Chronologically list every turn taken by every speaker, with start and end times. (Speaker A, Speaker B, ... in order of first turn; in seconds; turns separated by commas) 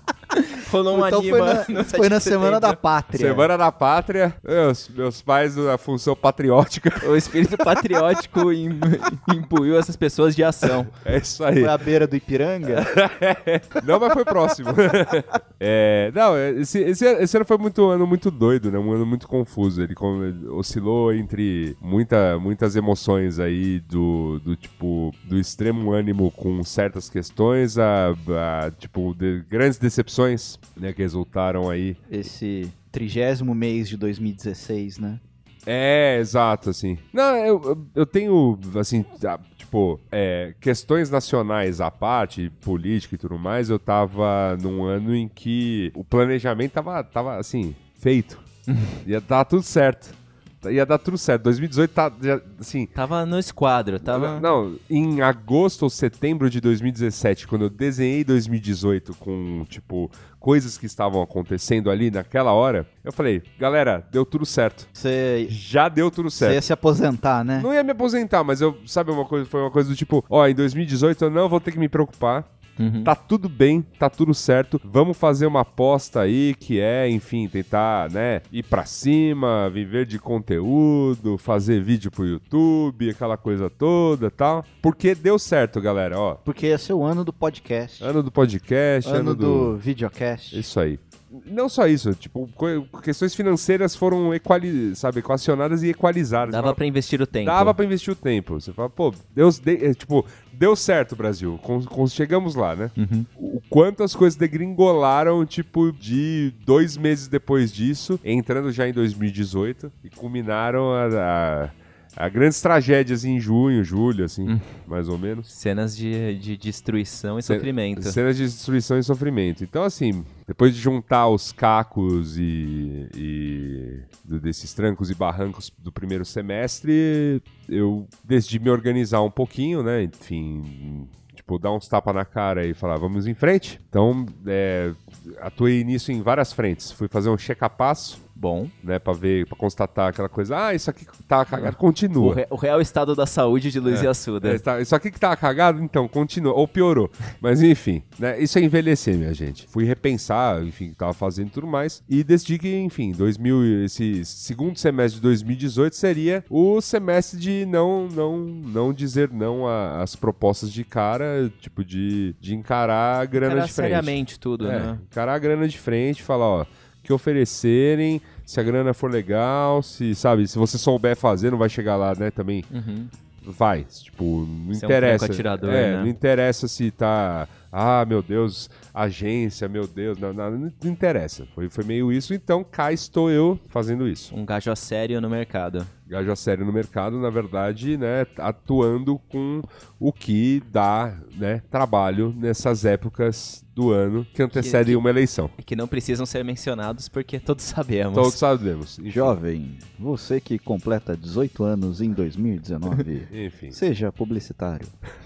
Speaker A: 0.3-2.8, Speaker B: 0.9-3.5, Speaker C: 3.1-7.2, Speaker A: 7.0-10.9, Speaker C: 11.0-11.8, Speaker B: 11.6-12.9, Speaker C: 12.7-32.0, Speaker B: 32.1-35.2, Speaker C: 35.7-48.5, Speaker A: 48.7-49.0, Speaker C: 49.0-52.9, Speaker A: 53.0-54.5, Speaker C: 54.0-64.9, Speaker B: 65.0-65.5, Speaker C: 65.5-66.6, Speaker B: 66.4-67.7, Speaker C: 67.6-86.4, Speaker A: 72.8-73.1, Speaker B: 86.5-88.1, Speaker C: 88.0-89.8, Speaker B: 89.0-90.7, Speaker C: 90.5-96.8, Speaker A: 96.5-97.8, Speaker C: 97.4-115.5, Speaker A: 103.0-103.3, Speaker A: 114.5-114.8, Speaker A: 115.5-118.2, Speaker C: 117.5-138.2, Speaker A: 138.4-138.7, Speaker C: 138.8-142.4, Speaker A: 141.5-144.6, Speaker C: 143.9-172.7, Speaker A: 163.4-165.0, Speaker A: 172.7-173.1, Speaker C: 173.4-184.3, Speaker A: 174.7-176.1, Speaker A: 184.3-185.9, Speaker C: 186.1-195.5, Speaker A: 194.5-195.0, Speaker A: 195.6-198.4, Speaker C: 198.1-199.4, Speaker B: 199.1-204.9, Speaker C: 203.3-203.8